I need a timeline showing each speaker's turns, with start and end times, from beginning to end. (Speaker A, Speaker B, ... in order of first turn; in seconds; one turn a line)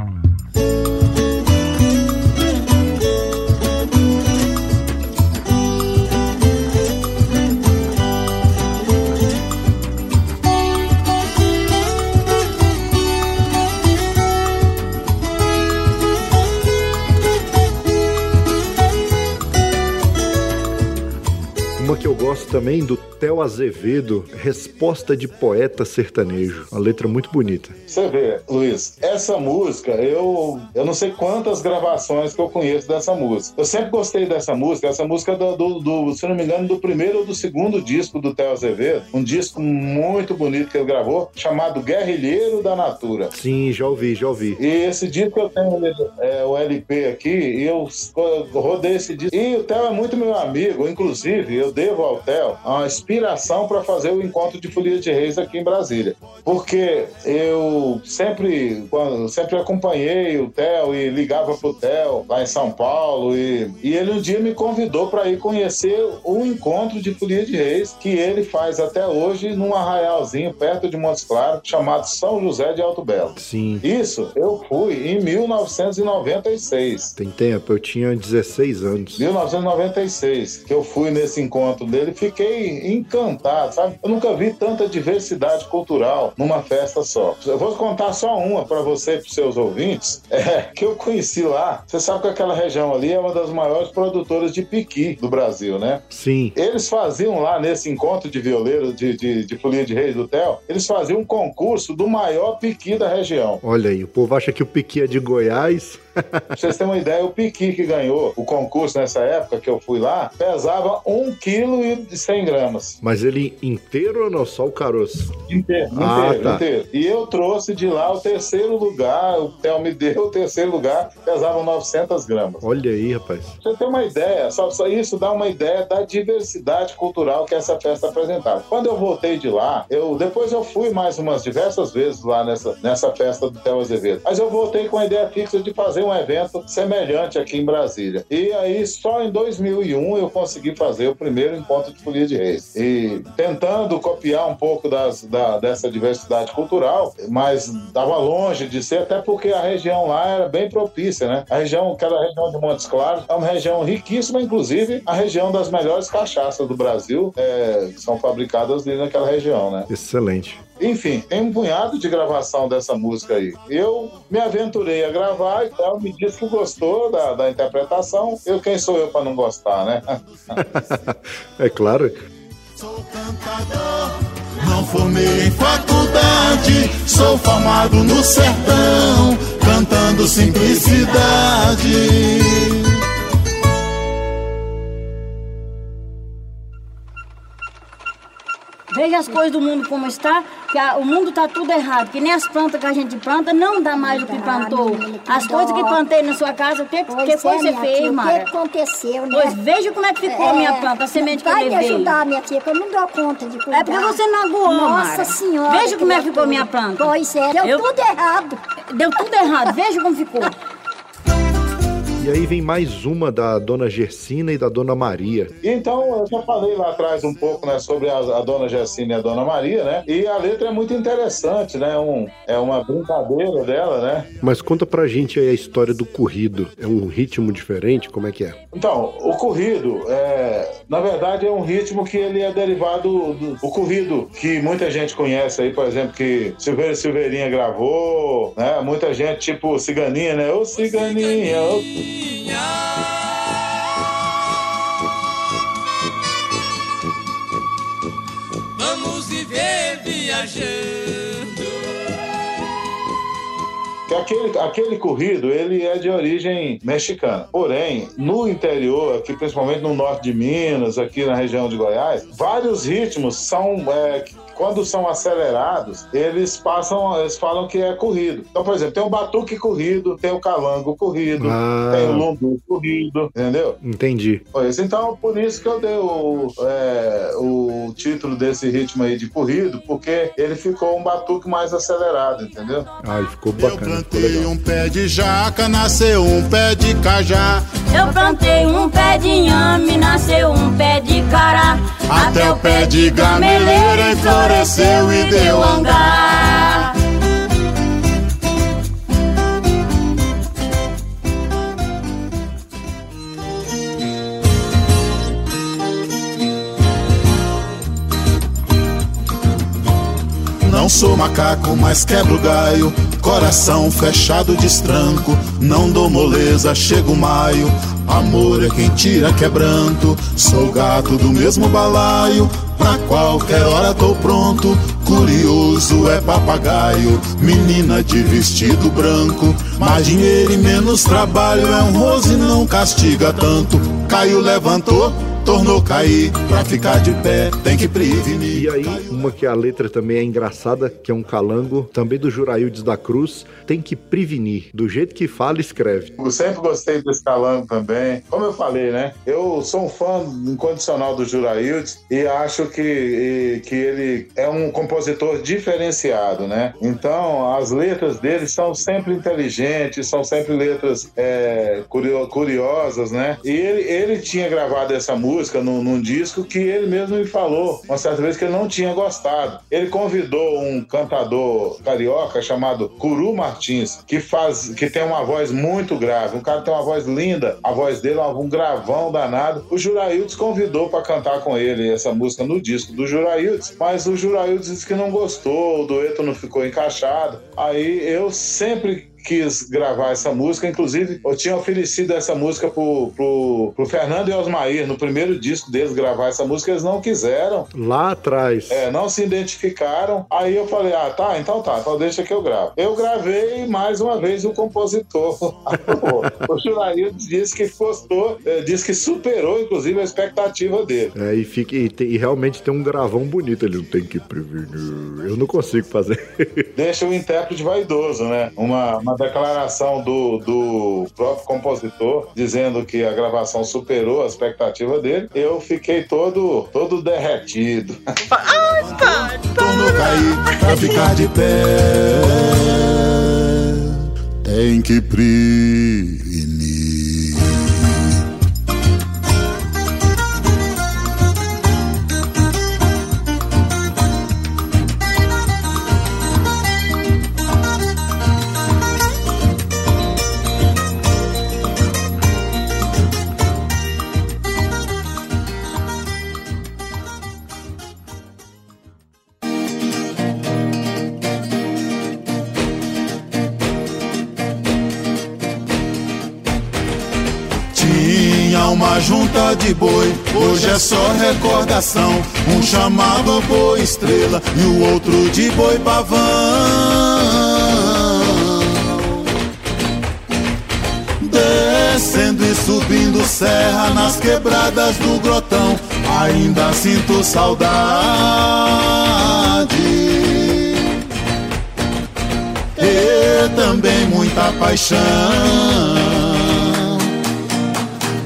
Speaker A: 21.8-27.8
Speaker B: 27.9-43.3
Speaker A: 43.3-44.6
Speaker B: 44.6-77.1
Speaker A: 73.4-73.8
Speaker A: 77.2-79.3
Speaker B: 79.2-96.0
Speaker A: 96.1-96.5
Speaker B: 96.6-103.6
Speaker A: 103.6-106.5
Speaker B: 106.5-113.0
Speaker A: 113.0-115.3
Speaker B: 115.5-122.6
Speaker A: 115.9-116.6
Speaker A: 122.6-123.6
Speaker B: 123.6-159.9
Speaker A: 159.9-160.6
Speaker B: 160.8-170.2
Speaker A: 170.5-172.2
Speaker C: 172.8-183.0
Speaker D: 188.9-198.5
Speaker E: 193.9-196.0
Speaker E: 197.1-199.6
Speaker D: 199.3-202.2
Speaker E: 200.2-208.6
Speaker D: 203.7-207.9
Speaker D: 208.9-210.5
Speaker E: 209.2-209.8
Speaker A: 212.2-215.5
Speaker B: 215.6-224.3
Speaker A: 224.4-228.6
Speaker B: 228.7-241.9
Speaker B: 254.1-273.8
Speaker A: 271.4-272.3
Speaker A: 273.8-274.4
Speaker B: 274.5-282.9
Speaker A: 283.0-284.5
Speaker C: 283.6-287.8
Speaker D: 287.9-297.0
Speaker C: 292.1-296.1
Speaker C: 310.6-339.1
Speaker A: 338.5-346.1
Speaker B: 346.2-397.7
Speaker A: 397.7-398.9
Speaker B: 398.7-411.1
Speaker A: 406.0-406.3
Speaker A: 411.1-416.7
Speaker B: 416.8-428.0
Speaker C: 428.8-438.0
Speaker C: 467.7-479.1
Speaker C: 481.2-490.9
Speaker C: 492.8-497.1